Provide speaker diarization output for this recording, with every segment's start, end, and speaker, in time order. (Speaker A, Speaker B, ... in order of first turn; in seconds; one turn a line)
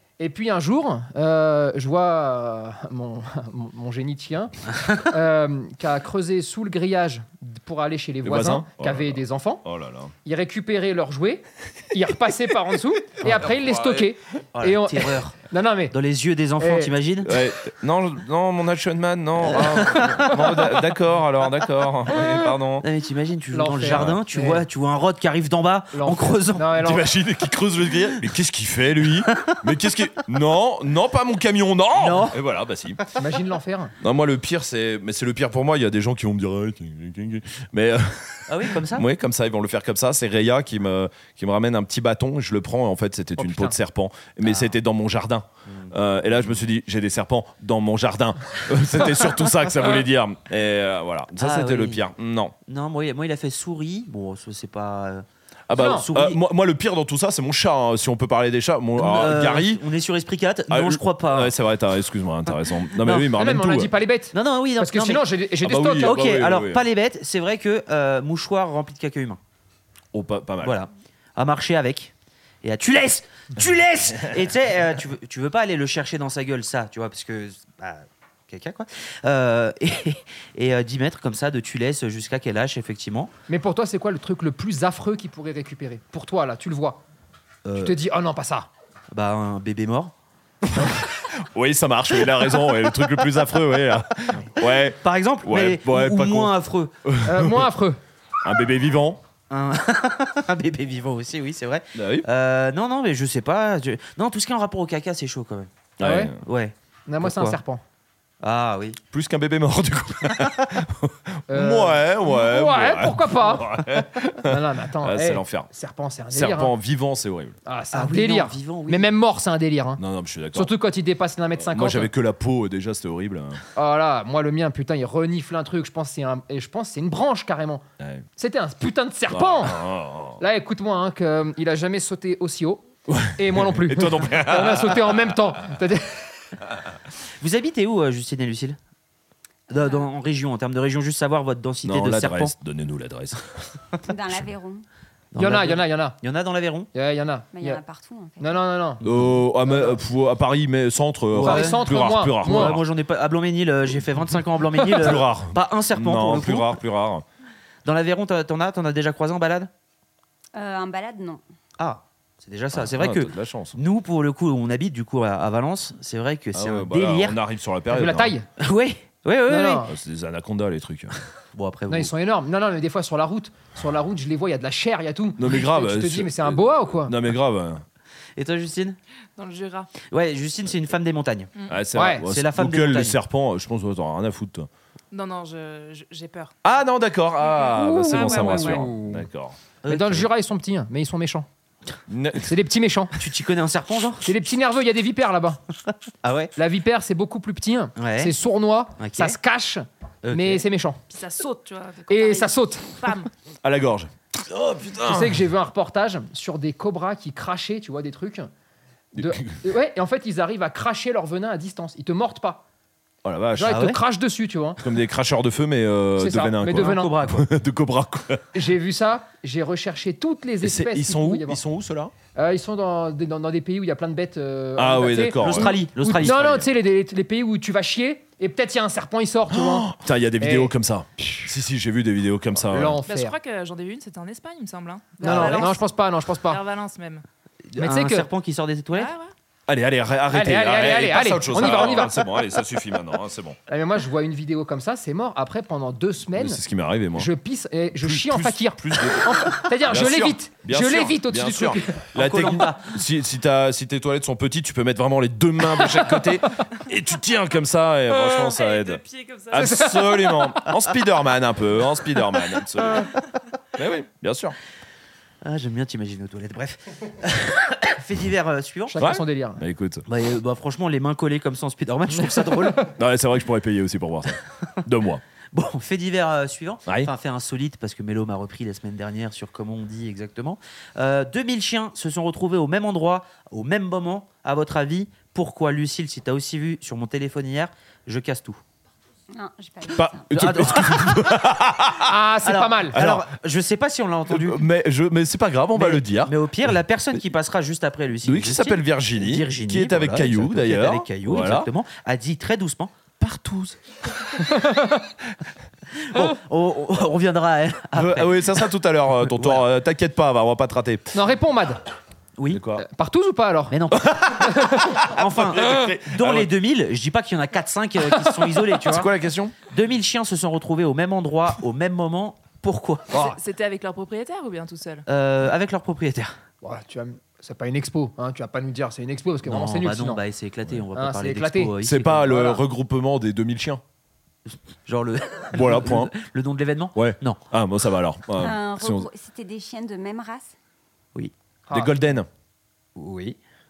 Speaker A: 0.2-9.6
Speaker B: 8.2-10.1
Speaker A: 10.2-15.9
Speaker B: 13.2-14.1
Speaker C: 14.5-15.4
Speaker C: 15.9-17.3
Speaker A: 16.6-16.9
Speaker B: 17.2-22.9
Speaker A: 19.5-20.8
Speaker C: 22.8-26.7
Speaker A: 23.5-24.6
Speaker B: 23.9-24.2
Speaker A: 25.9-27.1
Speaker B: 26.8-33.1
Speaker C: 29.3-29.6
Speaker C: 31.9-32.4
Speaker A: 33.2-33.9
Speaker B: 34.0-52.5
Speaker C: 38.5-39.1
Speaker A: 43.4-43.7
Speaker C: 44.4-44.7
Speaker C: 45.6-45.9
Speaker C: 51.4-52.0
Speaker C: 52.7-55.2
Speaker B: 55.7-59.8
Speaker A: 55.8-56.0
Speaker C: 55.8-56.4
Speaker C: 59.0-61.5
Speaker B: 60.7-63.9
Speaker C: 63.0-63.3
Speaker A: 63.1-66.2
Speaker C: 64.3-65.2
Speaker B: 65.6-66.8
Speaker C: 65.9-69.4
Speaker B: 70.1-70.8
Speaker C: 70.6-72.1
Speaker C: 72.6-83.3
Speaker A: 83.5-87.0
Speaker C: 87.6-87.9
Speaker A: 87.8-88.7
Speaker C: 89.1-90.1
Speaker B: 90.7-96.5
Speaker C: 95.0-96.9
Speaker B: 97.0-97.7
Speaker A: 97.2-98.0
Speaker B: 98.4-99.2
Speaker C: 99.5-105.7
Speaker B: 101.9-102.2
Speaker B: 106.0-106.4
Speaker A: 106.0-106.3
Speaker C: 106.4-107.6
Speaker A: 107.1-107.8
Speaker C: 108.4-109.0
Speaker B: 109.1-115.7
Speaker A: 111.5-116.7
Speaker B: 116.3-117.5
Speaker A: 117.6-120.0
Speaker C: 117.9-119.1
Speaker B: 120.0-120.7
Speaker A: 120.5-122.1
Speaker B: 121.6-123.6
Speaker A: 123.7-127.8
Speaker B: 128.0-128.2
Speaker A: 128.4-129.8
Speaker B: 129.3-130.4
Speaker A: 130.4-132.8
Speaker B: 133.1-135.3
Speaker A: 133.3-136.4
Speaker C: 137.4-138.8
Speaker C: 139.7-142.5
Speaker B: 141.8-143.6
Speaker D: 144.1-144.8
Speaker C: 145.3-146.9
Speaker A: 145.4-146.2
Speaker A: 146.9-147.8
Speaker D: 147.5-148.6
Speaker A: 148.4-149.0
Speaker B: 149.0-152.8
Speaker A: 149.6-150.0
Speaker C: 151.3-151.8
Speaker A: 151.4-152.8
Speaker C: 152.4-156.8
Speaker B: 154.8-157.2
Speaker C: 157.8-159.7
Speaker D: 160.5-161.4
Speaker C: 161.8-167.4
Speaker B: 162.7-163.8
Speaker B: 166.5-168.3
Speaker A: 167.9-168.5
Speaker C: 168.6-169.9
Speaker A: 169.5-169.9
Speaker B: 169.8-171.1
Speaker C: 171.5-172.1
Speaker A: 171.9-177.2
Speaker B: 175.4-177.8
Speaker C: 178.4-179.0
Speaker E: 179.4-179.9
Speaker C: 180.1-181.5
Speaker E: 181.6-181.8
Speaker B: 181.7-184.7
Speaker A: 181.9-182.2
Speaker C: 182.2-183.2
Speaker E: 185.1-186.5
Speaker B: 186.6-189.6
Speaker E: 187.4-188.9
Speaker A: 187.7-189.2
Speaker C: 189.8-190.3
Speaker A: 189.9-191.5
Speaker B: 192.1-192.5
Speaker A: 192.4-193.1
Speaker C: 193.2-194.3
Speaker A: 194.2-195.6
Speaker C: 196.2-196.5
Speaker A: 196.6-201.0
Speaker C: 198.0-198.3
Speaker C: 199.0-199.3
Speaker C: 200.2-200.6
Speaker E: 201.1-203.3
Speaker A: 202.1-203.1
Speaker B: 203.6-205.4
Speaker A: 205.0-208.5
Speaker A: 209.1-212.6
Speaker B: 209.2-209.6
Speaker B: 213.2-213.8
Speaker A: 213.6-214.8
Speaker C: 213.6-214.0
Speaker B: 214.8-218.5
Speaker A: 216.2-217.1
Speaker C: 216.8-217.5
Speaker A: 218.5-221.6
Speaker B: 220.6-222.1
Speaker A: 222.3-231.5
Speaker B: 224.8-226.6
Speaker C: 225.4-226.7
Speaker B: 229.5-233.0
Speaker A: 232.7-233.3
Speaker E: 233.1-235.9
Speaker A: 235.2-236.6
Speaker C: 235.2-235.7
Speaker E: 236.4-237.2
Speaker C: 237.7-239.1
Speaker A: 237.8-238.3
Speaker E: 238.9-239.3
Speaker B: 239.7-243.6
Speaker A: 240.3-242.4
Speaker A: 243.7-246.6
Speaker B: 246.3-247.3
Speaker A: 247.1-252.0
Speaker B: 247.9-263.1
Speaker C: 252.1-252.9
Speaker E: 258.1-259.9
Speaker A: 259.6-260.7
Speaker B: 263.7-264.6
Speaker C: 265.4-269.0
Speaker A: 268.9-269.6
Speaker B: 269.0-270.0
Speaker C: 270.1-272.9
Speaker B: 272.9-275.2
Speaker C: 275.5-288.6
Speaker D: 289.3-290.3
Speaker B: 289.9-292.1
Speaker C: 290.3-291.4
Speaker A: 292.0-293.0
Speaker C: 292.4-294.6
Speaker B: 292.9-293.3
Speaker B: 294.3-296.3
Speaker C: 295.7-303.0
Speaker B: 298.2-301.7
Speaker B: 303.2-303.8
Speaker A: 304.4-305.0
Speaker C: 305.9-308.7
Speaker B: 307.9-311.1
Speaker C: 309.2-309.6
Speaker A: 311.1-311.8
Speaker C: 312.4-312.6
Speaker B: 312.5-312.9
Speaker A: 312.8-315.0
Speaker C: 313.7-314.2
Speaker B: 314.1-316.5
Speaker C: 315.0-319.1
Speaker B: 318.8-319.5
Speaker C: 319.7-323.1
Speaker A: 323.1-323.4
Speaker E: 323.1-325.0
Speaker C: 325.1-326.3
Speaker A: 326.6-330.2
Speaker C: 329.4-332.6
Speaker A: 330.9-331.7
Speaker B: 331.8-333.8
Speaker C: 334.5-337.4
Speaker B: 335.5-336.1
Speaker B: 336.9-339.1
Speaker D: 338.4-340.5
Speaker A: 341.7-342.0
Speaker B: 341.7-342.3
Speaker C: 342.9-343.4